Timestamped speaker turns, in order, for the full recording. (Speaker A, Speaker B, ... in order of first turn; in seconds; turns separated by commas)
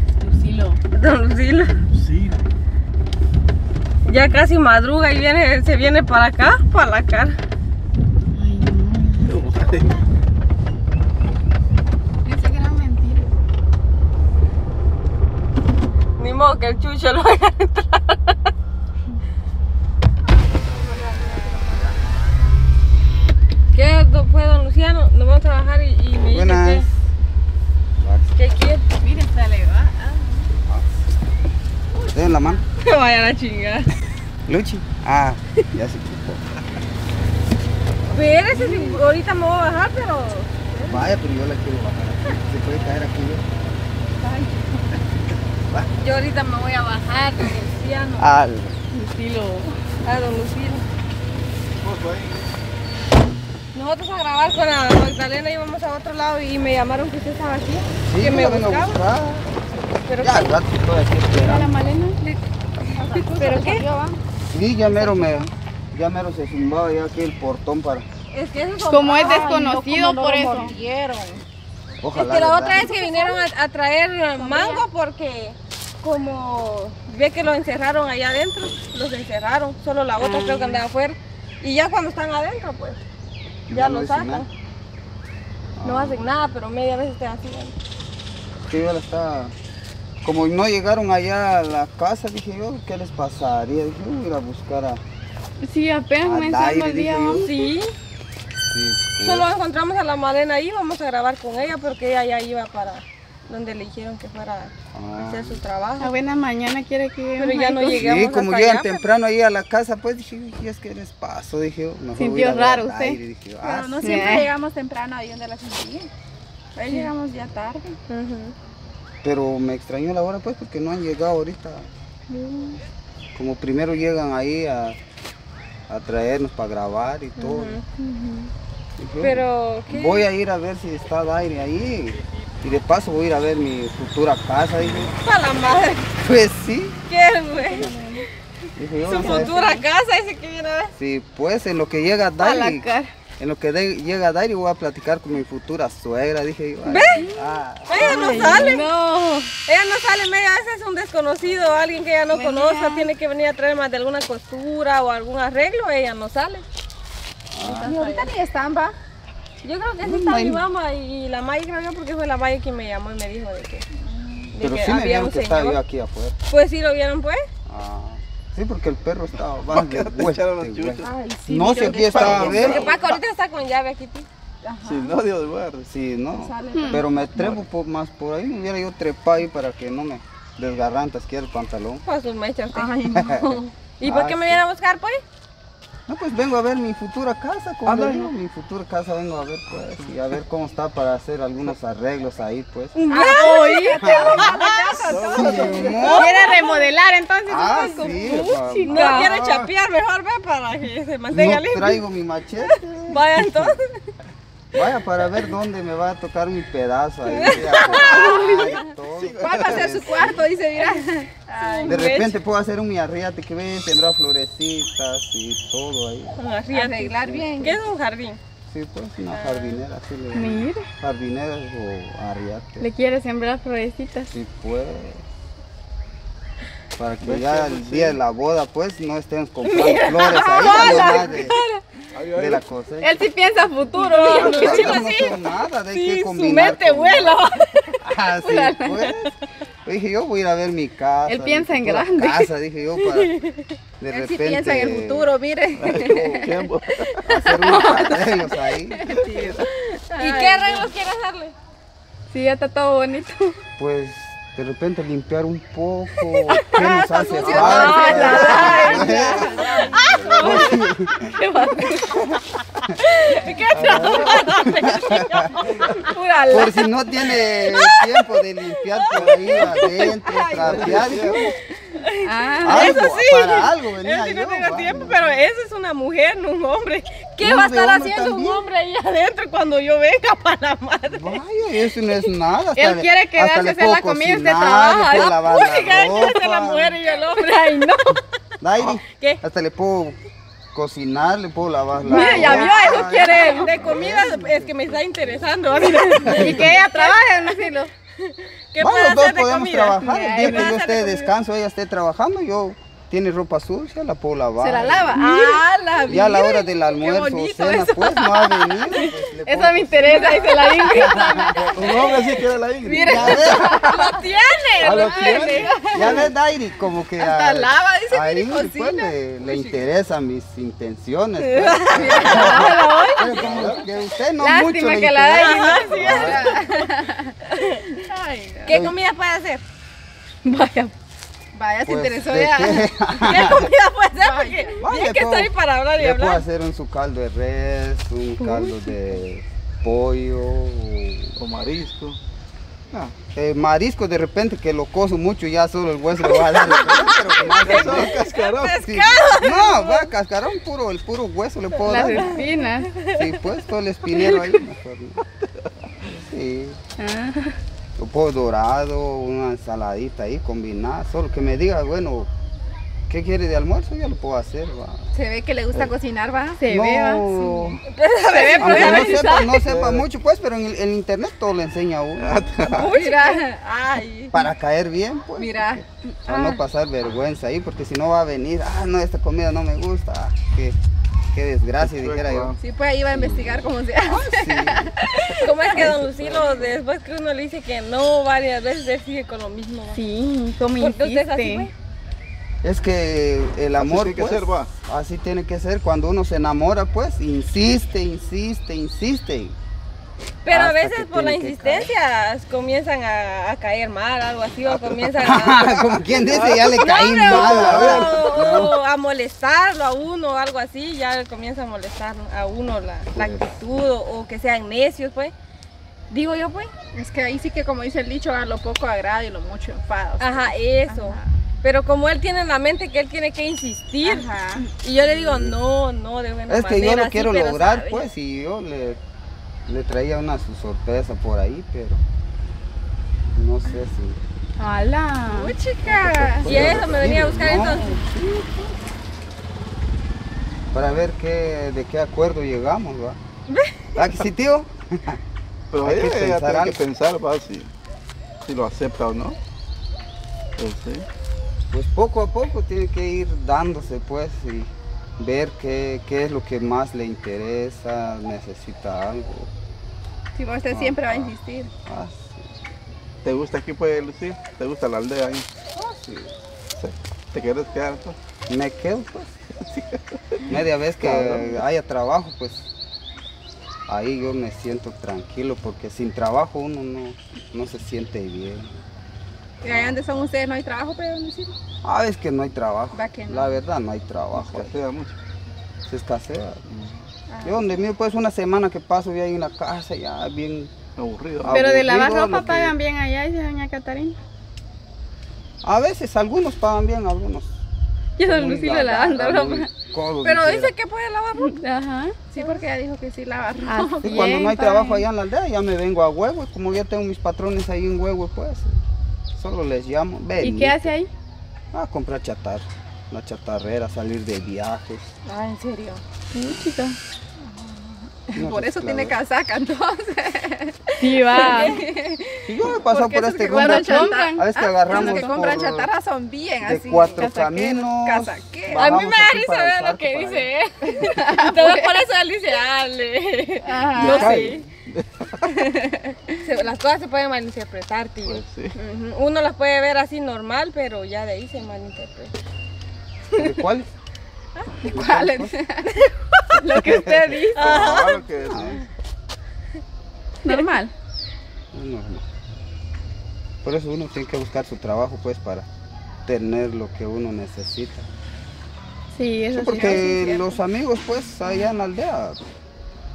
Speaker A: 0.2-0.8, Speaker B: 0.9-1.8, Speaker C: 1.9-2.4, Speaker B: 4.0-7.4, Speaker A: 8.3-9.7, Speaker C: 9.2-9.9, Speaker D: 12.2-13.3, Speaker B: 16.2-18.4, Speaker B: 23.7-26.9, Speaker E: 26.3-26.9, Speaker E: 28.0-28.4, Speaker B: 28.3-28.8, Speaker D: 29.0-30.4, Speaker A: 29.0-29.8, Speaker D: 32.0-32.6, Speaker E: 32.1-32.6, Speaker B: 32.8-33.9, Speaker E: 34.5-36.4, Speaker B: 38.0-41.1, Speaker E: 40.9-43.4, Speaker D: 44.2-45.0, Speaker B: 46.0-48.3, Speaker E: 48.2-48.8, Speaker A: 48.9-49.7, Speaker B: 50.0-50.8, Speaker C: 51.8-52.5, Speaker B: 53.7-59.0, Speaker E: 58.0-59.5, Speaker B: 60.0-60.6, Speaker E: 60.2-61.7, Speaker A: 61.4-62.2, Speaker B: 62.2-63.8, Speaker D: 63.0-64.1, Speaker A: 63.0-64.2, Speaker E: 64.5-68.0, Speaker B: 68.3-69.7, Speaker A: 68.8-70.7, Speaker D: 69.2-71.4, Speaker E: 72.0-72.9, Speaker B: 72.1-83.0, Speaker A: 72.9-73.4, Speaker A: 74.4-74.8, Speaker A: 80.2-80.8, Speaker E: 83.7-84.5, Speaker B: 83.7-84.5, Speaker E: 85.8-86.3, Speaker B: 85.8-87.7, Speaker E: 88.7-89.5, Speaker E: 90.2-95.0, Speaker A: 95.6-97.5, Speaker E: 96.2-97.5, Speaker B: 97.3-97.9, Speaker E: 98.7-99.5, Speaker B: 99.2-106.1, Speaker E: 104.9-105.6, Speaker A: 106.0-108.0, Speaker B: 107.4-109.0, Speaker E: 107.9-114.4, Speaker A: 112.1-113.2, Speaker D: 113.6-116.1, Speaker A: 114.0-114.5, Speaker D: 116.8-118.0, Speaker B: 118.1-118.5, Speaker E: 119.2-121.9, Speaker A: 122.3-122.8, Speaker E: 123.3-125.0, Speaker E: 125.9-127.8, Speaker B: 127.4-127.8, Speaker A: 128.0-128.5, Speaker E: 129.0-135.1, Speaker B: 129.2-130.3, Speaker B: 134.8-136.1, Speaker E: 136.1-137.0, Speaker B: 137.1-137.9, Speaker A: 137.5-138.2, Speaker E: 138.8-139.5, Speaker B: 139.0-140.9, Speaker A: 139.1-139.8, Speaker E: 140.9-142.9, Speaker A: 142.4-143.1, Speaker E: 143.4-148.7, Speaker B: 146.8-147.2, Speaker A: 147.1-149.5, Speaker B: 147.9-148.9, Speaker B: 149.7-156.6, Speaker A: 152.3-153.1, Speaker E: 157.5-157.9, Speaker B: 157.6-158.3, Speaker D: 157.6-158.9, Speaker B: 159.6-163.8, Speaker E: 160.0-160.6, Speaker D: 164.0-164.5, Speaker B: 164.5-165.8, Speaker E: 164.6-166.3, Speaker B: 166.5-167.4, Speaker E: 167.7-172.9, Speaker C: 169.5-171.1, Speaker D: 171.0-173.0, Speaker C: 171.9-173.1, Speaker B: 172.4-174.3, Speaker D: 174.6-175.2, Speaker C: 174.8-175.9, Speaker E: 175.8-182.0, Speaker D: 176.3-177.4, Speaker A: 176.7-177.0, Speaker C: 177.4-177.6, Speaker B: 182.0-183.0, Speaker D: 182.7-183.7, Speaker E: 183.1-183.5, Speaker B: 184.0-185.2, Speaker E: 184.0-184.6, Speaker E: 186.1-192.9, Speaker C: 187.8-188.3, Speaker C: 189.8-190.1, Speaker B: 192.9-196.8, Speaker D: 193.1-195.6, Speaker A: 193.2-194.4, Speaker E: 193.9-194.5, Speaker C: 195.0-196.3, Speaker E: 195.3-196.3, Speaker A: 195.6-199.4, Speaker E: 197.5-199.2, Speaker B: 198.8-202.0, Speaker C: 199.2-199.7, Speaker E: 201.3-203.8, Speaker B: 203.1-204.0, Speaker E: 204.7-210.4, Speaker B: 207.3-208.4, Speaker C: 207.5-210.4, Speaker D: 207.8-208.3, Speaker D: 209.4-212.1, Speaker B: 211.6-212.4, Speaker E: 211.8-216.4, Speaker B: 216.4-218.4, Speaker D: 216.7-217.8, Speaker E: 218.7-222.9, Speaker B: 219.3-219.8, Speaker A: 220.3-220.8, Speaker A: 222.8-224.3, Speaker E: 224.3-225.2, Speaker E: 227.0-231.6, Speaker C: 227.2-228.2, Speaker B: 229.6-231.7, Speaker A: 230.6-231.6, Speaker C: 232.1-232.6, Speaker E: 232.3-233.3, Speaker A: 233.0-235.0, Speaker B: 234.0-239.3, Speaker E: 234.3-237.4, Speaker E: 238.0-239.3, Speaker E: 239.8-243.3, Speaker A: 241.3-242.5, Speaker B: 243.0-243.8, Speaker E: 244.0-245.3, Speaker D: 244.1-246.6, Speaker C: 245.8-247.4, Speaker E: 246.0-246.5, Speaker E: 247.2-249.1, Speaker D: 247.4-250.9, Speaker C: 249.1-249.6, Speaker B: 250.2-251.5, Speaker A: 252.3-253.5, Speaker E: 253.8-259.5, Speaker D: 256.7-259.3, Speaker A: 257.5-262.3, Speaker B: 257.5-260.7, Speaker C: 260.0-260.6, Speaker E: 260.2-261.4, Speaker B: 263.1-266.1, Speaker A: 263.2-264.7, Speaker C: 263.7-264.5, Speaker A: 265.8-266.8, Speaker E: 266.5-271.5, Speaker B: 267.6-268.0, Speaker B: 268.8-281.4, Speaker C: 269.1-269.8, Speaker C: 270.6-271.5, Speaker A: 272.2-272.9, Speaker E: 272.6-275.4, Speaker E: 277.4-278.6, Speaker E: 281.1-287.0, Speaker A: 282.7-285.3, Speaker B: 285.1-287.9, Speaker A: 287.2-288.2, Speaker E: 288.6-290.2, Speaker B: 289.1-289.4, Speaker E: 290.7-295.5, Speaker A: 292.0-293.8, Speaker B: 292.1-297.4, Speaker A: 296.0-297.9, Speaker E: 296.2-296.7, Speaker D: 296.7-297.8, Speaker B: 298.2-301.3, Speaker E: 298.8-305.2, Speaker A: 300.0-300.7, Speaker D: 304.6-308.7, Speaker B: 305.1-305.6, Speaker E: 306.1-311.8, Speaker A: 309.0-312.4, Speaker B: 310.1-311.1, Speaker C: 311.6-313.8, Speaker B: 312.8-316.3, Speaker D: 312.8-313.7, Speaker E: 313.0-313.8, Speaker A: 313.8-314.2, Speaker C: 314.8-315.7, Speaker D: 314.9-316.2, Speaker A: 315.5-316.1, Speaker E: 315.9-326.5, Speaker B: 317.3-319.8, Speaker B: 321.4-323.7, Speaker D: 321.9-322.7, Speaker A: 322.2-323.8, Speaker A: 324.4-326.6, Speaker B: 325.4-326.9, Speaker D: 326.2-327.3, Speaker B: 327.5-327.8, Speaker D: 327.9-328.8, Speaker B: 328.7-329.6, Speaker E: 328.7-329.0, Speaker A: 330.4-330.9, Speaker D: 331.5-332.9, Speaker E: 331.8-333.7, Speaker B: 333.2-336.4, Speaker D: 334.1-334.8, Speaker E: 334.8-341.4, Speaker A: 338.4-338.9, Speaker C: 341.4-342.2, Speaker E: 343.3-348.2, Speaker B: 346.5-350.1, Speaker C: 346.8-348.8, Speaker E: 348.8-352.4, Speaker B: 351.8-353.2, Speaker A: 351.8-352.9, Speaker E: 353.1-355.2, Speaker E: 356.1-356.8, Speaker A: 357.0-357.6, Speaker E: 358.0-362.3, Speaker E: 363.1-365.1, Speaker D: 365.1-366.6, Speaker A: 366.6-367.4, Speaker E: 366.7-367.8, Speaker D: 367.4-367.8, Speaker B: 367.9-369.5, Speaker A: 368.3-369.5, Speaker E: 368.6-372.9, Speaker C: 369.5-370.1, Speaker C: 372.2-372.9, Speaker B: 372.7-373.5, Speaker D: 372.7-374.4, Speaker E: 374.3-380.8, Speaker D: 375.4-375.8, Speaker A: 376.3-376.5, Speaker E: 381.3-382.5, Speaker C: 381.8-382.6, Speaker D: 382.6-385.4, Speaker E: 383.1-386.0, Speaker B: 385.4-390.0, Speaker C: 385.7-386.8, Speaker A: 389.9-391.7, Speaker B: 390.8-391.7, Speaker E: 392.6-399.6, Speaker C: 393.8-394.7, Speaker B: 400.4-415.3, Speaker E: 400.5-401.9, Speaker E: 404.7-408.7, Speaker C: 406.2-408.6, Speaker E: 413.1-413.6, Speaker B: 416.1-416.7, Speaker D: 416.9-421.4, Speaker B: 420.2-428.1, Speaker D: 424.0-424.6, Speaker E: 425.0-425.6, Speaker E: 426.5-429.0, Speaker E: 429.6-432.0, Speaker E: 433.3-434.2, Speaker A: 434.6-435.5, Speaker D: 435.3-436.4, Speaker E: 435.9-438.7, Speaker C: 436.0-437.0, Speaker B: 436.4-438.0, Speaker E: 440.7-443.2, Speaker B: 443.5-443.8, Speaker E: 443.9-445.2, Speaker C: 445.7-447.7, Speaker E: 445.8-446.8, Speaker C: 448.4-449.4, Speaker C: 450.6-451.1, Speaker E: 451.7-459.5, Speaker D: 460.3-461.7, Speaker E: 460.7-461.3, Speaker E: 461.9-462.4, Speaker C: 463.2-465.5, Speaker E: 465.8-466.3, Speaker C: 466.7-468.2, Speaker E: 468.5-469.3, Speaker C: 469.6-471.6, Speaker E: 470.5-472.7, Speaker E: 473.9-478.7, Speaker D: 479.6-481.5, Speaker E: 479.7-480.0, Speaker E: 481.8-484.7, Speaker D: 482.9-483.6, Speaker C: 484.3-485.2, Speaker E: 485.9-486.6, Speaker C: 486.7-486.9, Speaker D: 487.3-487.8, Speaker E: 487.4-490.7, Speaker C: 491.0-491.6, Speaker E: 491.4-492.7, Speaker A: 491.4-494.2, Speaker E: 495.6-497.6, Speaker A: 498.2-499.7, Speaker E: 498.2-500.7, Speaker B: 500.2-501.6, Speaker A: 501.3-502.1, Speaker D: 502.3-504.2, Speaker B: 502.4-502.6, Speaker A: 503.6-505.0, Speaker E: 504.0-508.8, Speaker E: 509.3-510.9, Speaker A: 510.4-511.1, Speaker E: 511.7-515.0, Speaker D: 515.2-516.0, Speaker A: 516.3-517.0, Speaker D: 517.4-527.2, Speaker E: 518.3-519.2, Speaker A: 521.0-521.8, Speaker B: 521.3-521.8, Speaker E: 522.5-525.9, Speaker A: 523.5-525.4, Speaker E: 526.6-530.5, Speaker A: 527.1-527.9, Speaker D: 528.0-528.9, Speaker B: 528.7-534.6, Speaker D: 531.0-531.9, Speaker A: 533.6-534.5, Speaker C: 533.9-535.5, Speaker D: 535.4-536.1, Speaker B: 536.4-542.3, Speaker C: 538.2-538.8, Speaker E: 543.4-543.9, Speaker D: 544.8-546.1, Speaker E: 544.9-545.6, Speaker A: 546.5-547.7, Speaker B: 547.5-548.8, Speaker C: 547.5-548.9, Speaker E: 548.4-548.8, Speaker A: 550.4-550.9, Speaker E: 551.7-552.2, Speaker E: 553.6-555.7, Speaker E: 556.2-558.1, Speaker A: 559.1-560.1, Speaker E: 559.5-562.4, Speaker B: 559.8-560.5